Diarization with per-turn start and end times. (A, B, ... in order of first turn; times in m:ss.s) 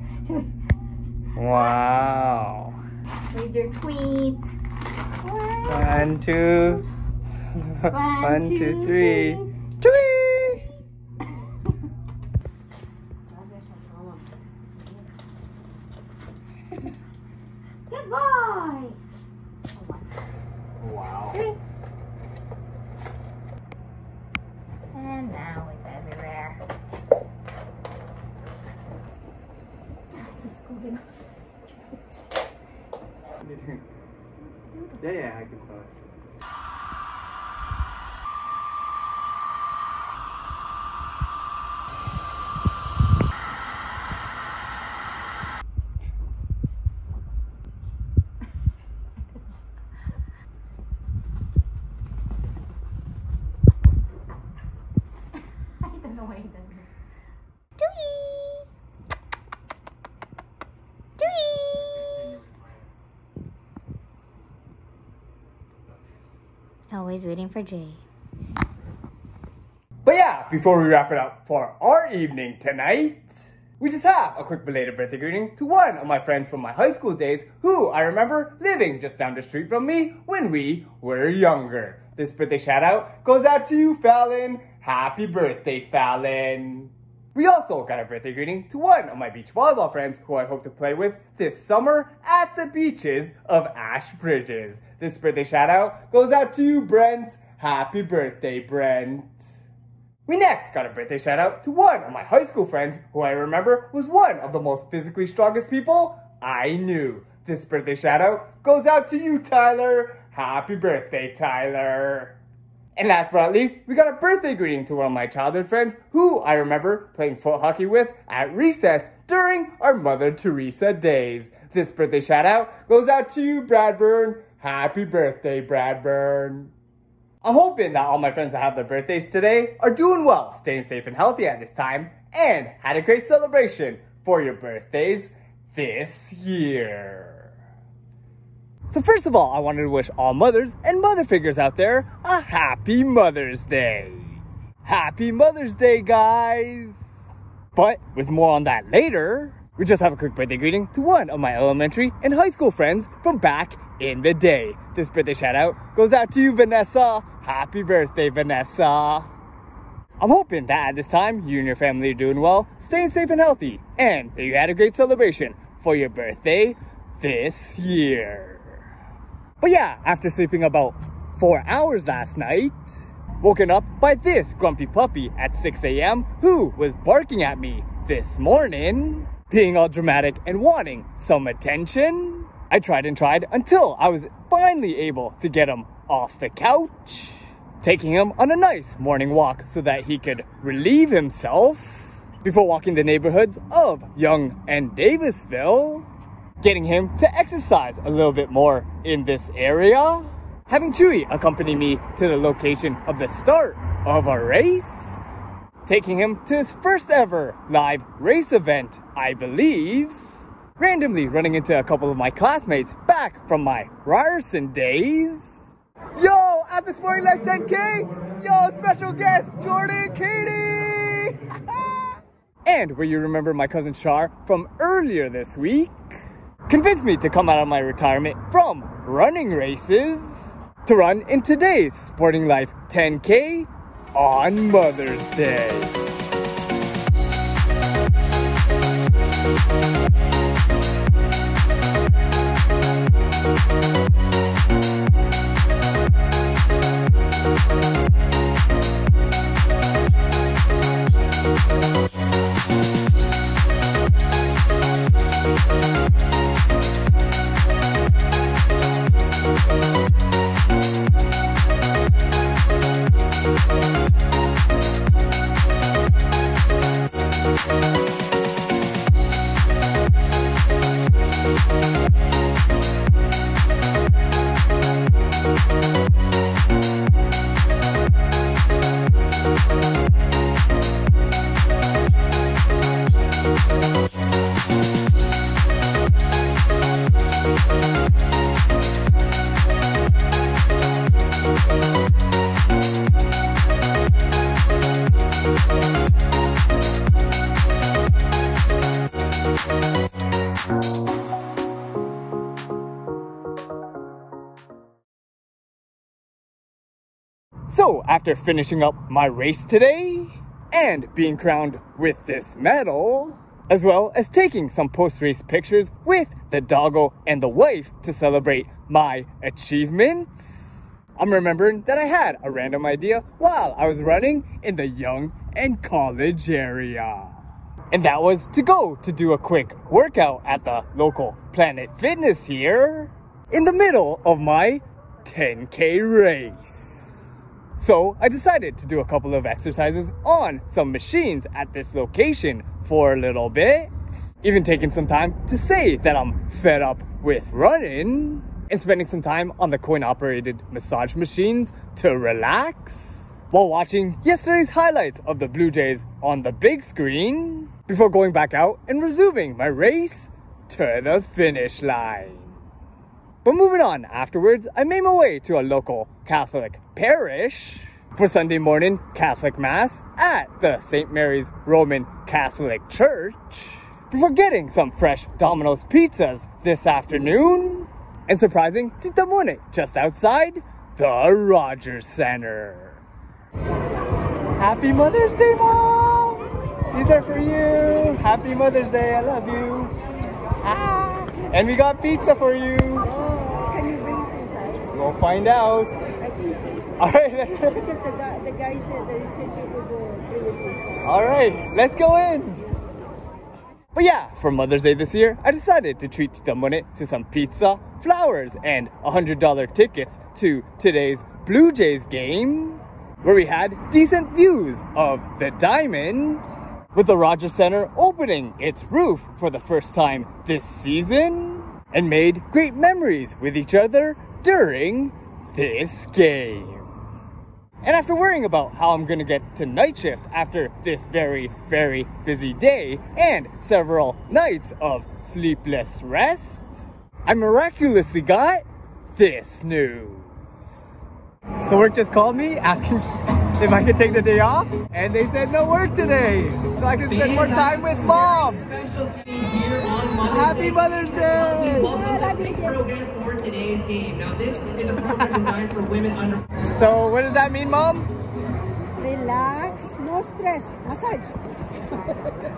0:00.2-0:00.5 A
0:01.4-0:02.8 B
0:03.3-0:04.5 A
0:05.2-0:06.8 A
0:05.7-0:06.8 B
0:07.6-0:10.7 B
0:07.9-0:09.5 A
0:13.3-0:15.1 A
0:17.9-0:19.0 A
0:19.7-0:20.1 A
0:20.8-0:21.4 B
0:21.3-0:21.6 A
0:24.9-0:26.6 A
0:30.1-0:31.1 A
0:33.4-0:33.8 B
0:34.3-0:35.3 A
0:35.0-0:35.9 B
0:55.8-0:56.9 A
0:57.8-0:58.7 A
1:01.2-1:02.2 A
1:06.9-1:08.0 A
1:10.0-1:39.6 B
1:40.3-1:52.4 B
1:53.0-2:06.7 B
2:07.4-2:17.5 B
2:18.9-2:27.1 B
2:27.7-2:39.3 B
2:40.2-2:48.8 B
2:49.6-3:16.1 B
3:16.6-3:25.3 B
3:25.8-3:30.2 B
3:30.8-3:42.0 B
3:42.7-3:56.0 B
5:07.7-5:27.4 B
5:27.9-5:37.2 B
5:37.8-5:43.9 B
5:44.4-6:02.5 B
6:03.4-6:23.0 B
6:24.5-6:29.9 B
6:30.6-6:33.1 B
6:33.1-6:34.9 C
6:34.9-6:36.0 B
6:36.2-6:36.9 C
6:37.0-6:37.8 B
6:37.6-6:41.1 C
6:41.0-6:42.6 B
6:43.9-7:06.9 B
7:07.8-7:20.8 B
7:21.6-7:28.7 B
7:27.1-7:36.5 D
7:30.2-7:32.0 B
7:31.7-7:32.9 C
7:36.8-7:38.1 B
7:39.0-7:41.4 C